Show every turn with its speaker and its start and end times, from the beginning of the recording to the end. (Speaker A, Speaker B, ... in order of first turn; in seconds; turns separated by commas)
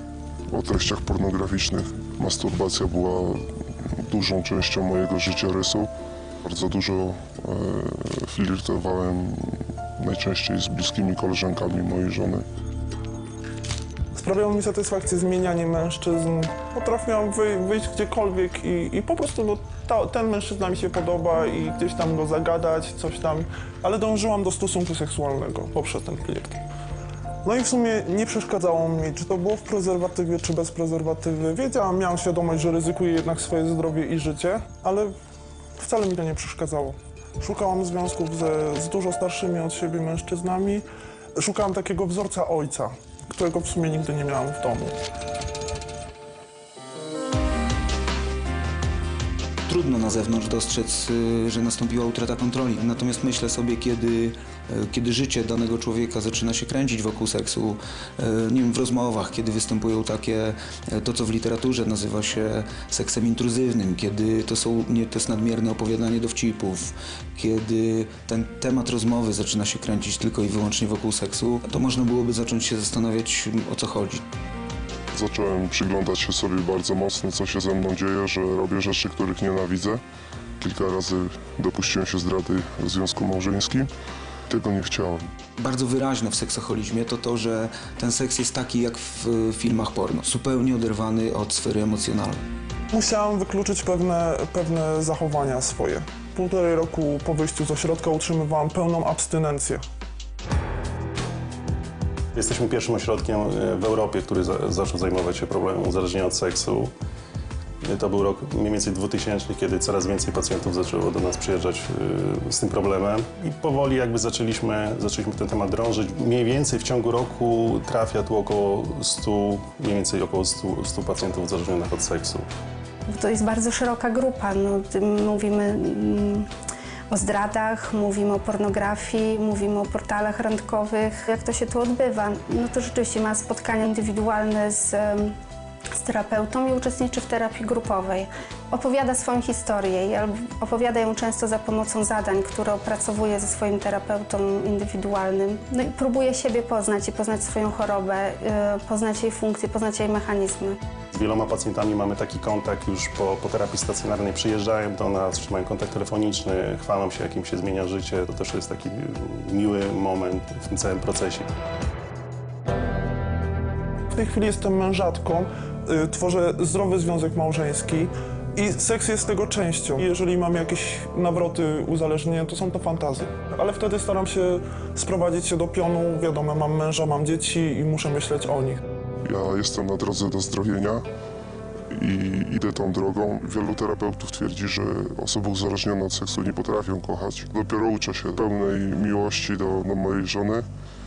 Speaker A: 0.5-5.9, Speaker A: 6.4-12.4, Speaker B: 14.1-26.6, Speaker B: 27.4-35.1, Speaker B: 35.8-40.8, Speaker B: 41.4-45.0, Speaker C: 49.6-74.2, Speaker A: 75.1-80.0, Speaker A: 80.6-83.9, Speaker A: 84.5-85.2, Speaker C: 85.6-92.4, Speaker B: 92.9-99.8, Speaker D: 102.3-106.9, Speaker D: 107.9-122.5, Speaker E: 123.1-126.5, Speaker E: 127.1-135.3, Speaker E: 136.0-150.8, Speaker D: 151.1-161.5, Speaker B: 164.1-178.8, Speaker A: 179.2-181.1, Speaker A: 181.9-190.7